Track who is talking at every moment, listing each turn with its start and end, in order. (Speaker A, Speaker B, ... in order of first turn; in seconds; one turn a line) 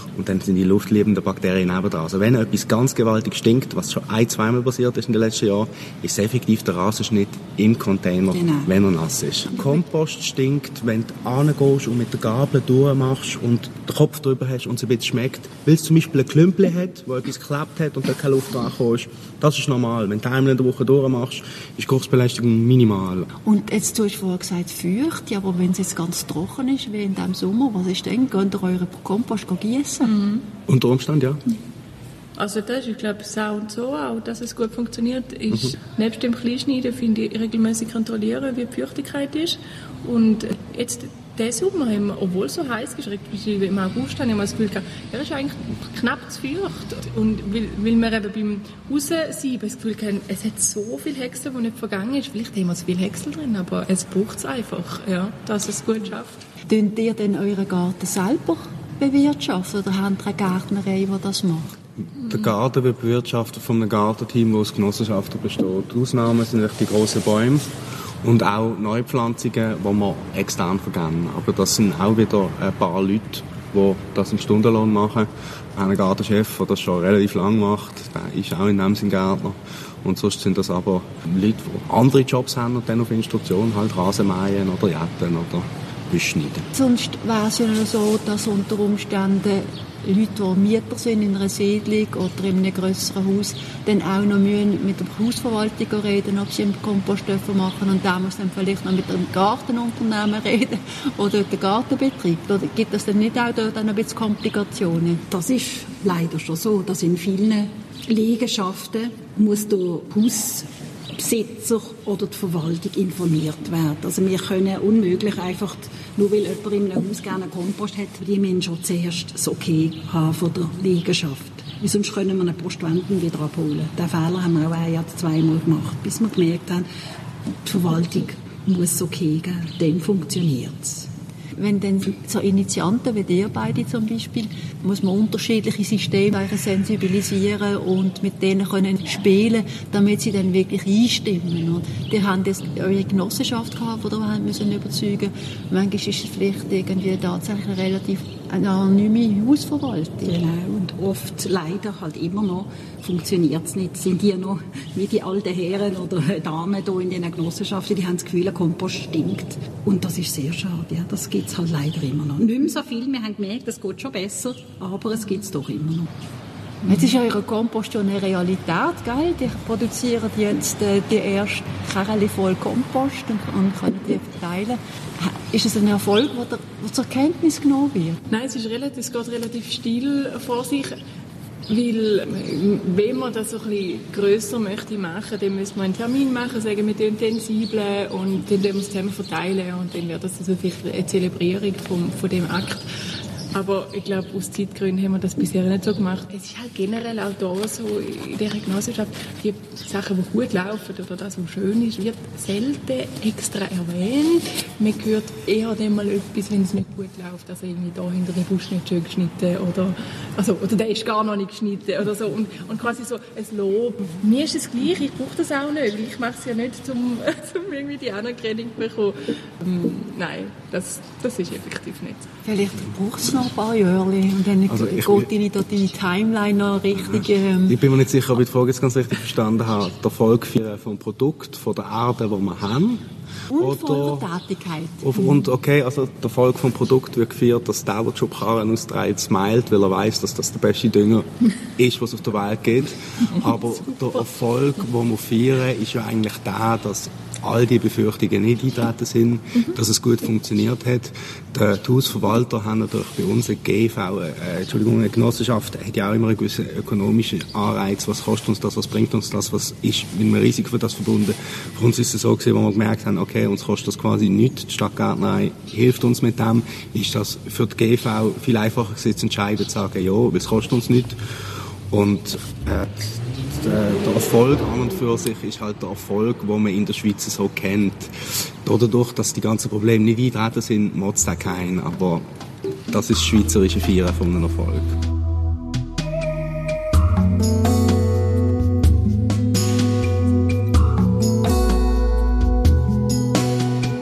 Speaker A: 0.1-23.3
Speaker B: 8.3-8.7
Speaker C: 23.4-30.1
Speaker D: 30.0-30.5
Speaker A: 30.7-31.4
Speaker D: 32.4-56.4
Speaker C: 56.7-61.8
Speaker A: 62.2-67.7
Speaker A: 68.2-86.7
Speaker C: 86.7-105.2
Speaker B: 105.3-126.8
Speaker B: 127.6-131.1
Speaker C: 131.6-150.3
Speaker B: 150.2-166.1
Speaker C: 166.8-178.2
Speaker D: 178.3-180.9
Speaker D: 181.7-192.8
Speaker D: 193.5-222.3
Speaker C: 222.4-227.8
Speaker A: 224.7-225.3
Speaker A: 227.7-234.3
Speaker C: 233.5-235.1
Speaker A: 235.0-271.2
Speaker A: 271.9-282.2
Speaker A: 282.9-285.0